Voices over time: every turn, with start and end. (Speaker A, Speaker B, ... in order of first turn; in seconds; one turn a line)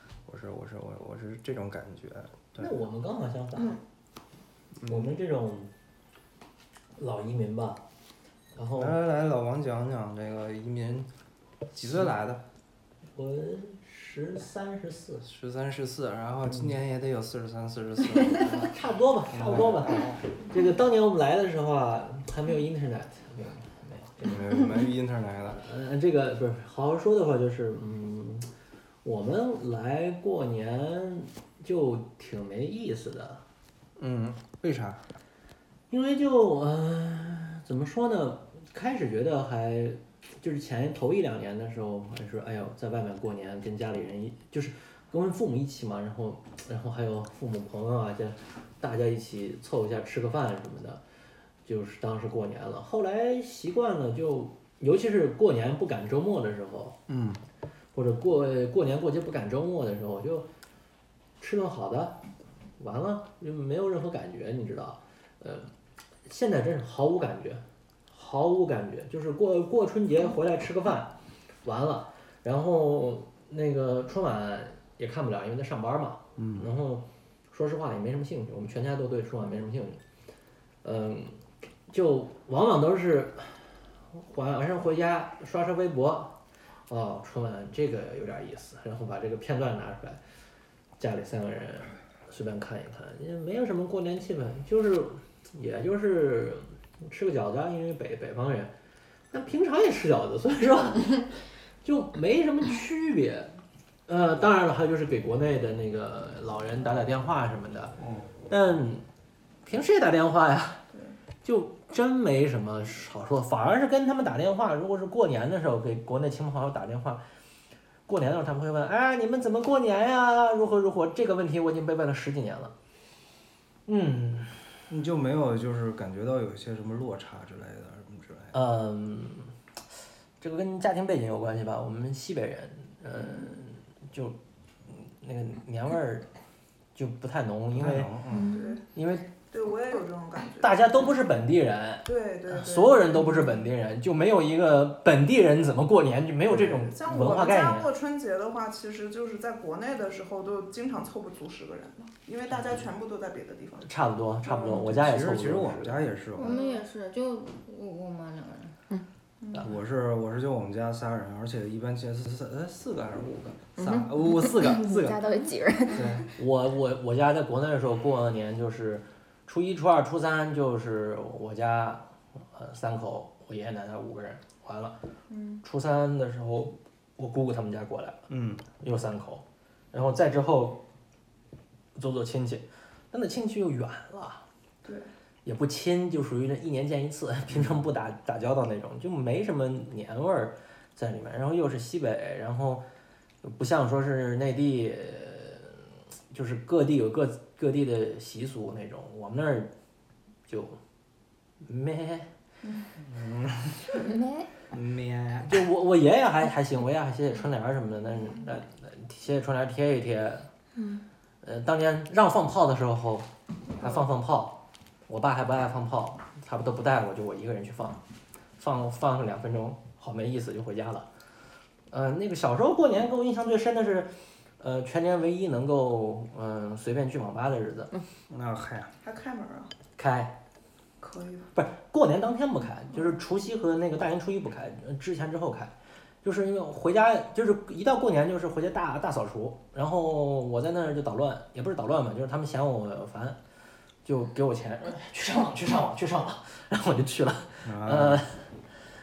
Speaker A: 0.3-2.7
Speaker B: 2.6-3.8
Speaker A: 4.8-5.1
Speaker B: 4.9-5.7
Speaker B: 7.0-7.8
Speaker B: 8.6-9.0
Speaker A: 8.8-11.1
Speaker A: 11.7-12.4
Speaker B: 11.8-12.1
Speaker B: 13.2-15.2
Speaker A: 15.2-18.8
Speaker B: 18.4-24.8
Speaker A: 19.3-20.2
Speaker A: 24.2-25.6
Speaker B: 25.6-28.5
Speaker B: 29.0-33.4
Speaker A: 34.0-35.1
Speaker B: 35.9-51.0
Speaker B: 51.6-57.0
Speaker A: 57.1-57.4
Speaker B: 57.9-60.5
Speaker B: 61.4-62.2
Speaker B: 62.8-65.7
Speaker B: 66.3-80.0
Speaker A: 76.4-76.7
Speaker B: 80.8-90.2
Speaker B: 91.0-98.7
Speaker B: 99.3-108.0
Speaker A: 108.0-108.3
Speaker B: 108.5-109.0
Speaker B: 109.6-110.9
Speaker B: 111.4-117.2
Speaker B: 118.1-122.7
Speaker B: 123.9-124.7
Speaker A: 124.9-128.6
Speaker B: 128.5-129.6
Speaker B: 130.4-134.4
Speaker B: 134.9-136.3
Speaker B: 136.9-138.1
Speaker A: 137.8-138.5
Speaker C: 138.3-138.8
Speaker D: 138.5-138.8
Speaker B: 138.9-139.3
Speaker D: 139.5-141.1
Speaker B: 140.6-147.9
Speaker D: 142.1-143.5
Speaker D: 146.6-153.9
Speaker B: 153.8-156.0
Speaker D: 154.4-154.8
Speaker A: 154.6-156.6
Speaker E: 156.4-158.8
Speaker D: 159.4-159.7
Speaker A: 159.6-165.2
Speaker C: 163.8-166.3
Speaker A: 165.9-166.3
Speaker B: 166.4-175.0
Speaker D: 175.3-175.6
Speaker B: 175.6-178.2
Speaker A: 178.3-178.6
Speaker B: 178.8-180.8
Speaker B: 181.9-184.4
Speaker B: 185.4-192.9
Speaker A: 187.5-187.8
Speaker B: 193.4-199.7
Speaker B: 200.5-200.8
Speaker B: 201.6-202.3
Speaker A: 203.0-203.8
Speaker C: 204.0-204.5
Speaker A: 204.7-205.6
Speaker B: 205.5-210.5
Speaker C: 210.8-211.0
Speaker B: 211.4-218.0
Speaker B: 218.6-221.1
Speaker B: 221.9-227.9
Speaker A: 228.3-228.9
Speaker D: 229.0-229.7
Speaker B: 230.0-230.4
Speaker D: 231.0-231.5
Speaker B: 231.5-243.4
Speaker B: 244.0-248.8
Speaker A: 247.6-248.2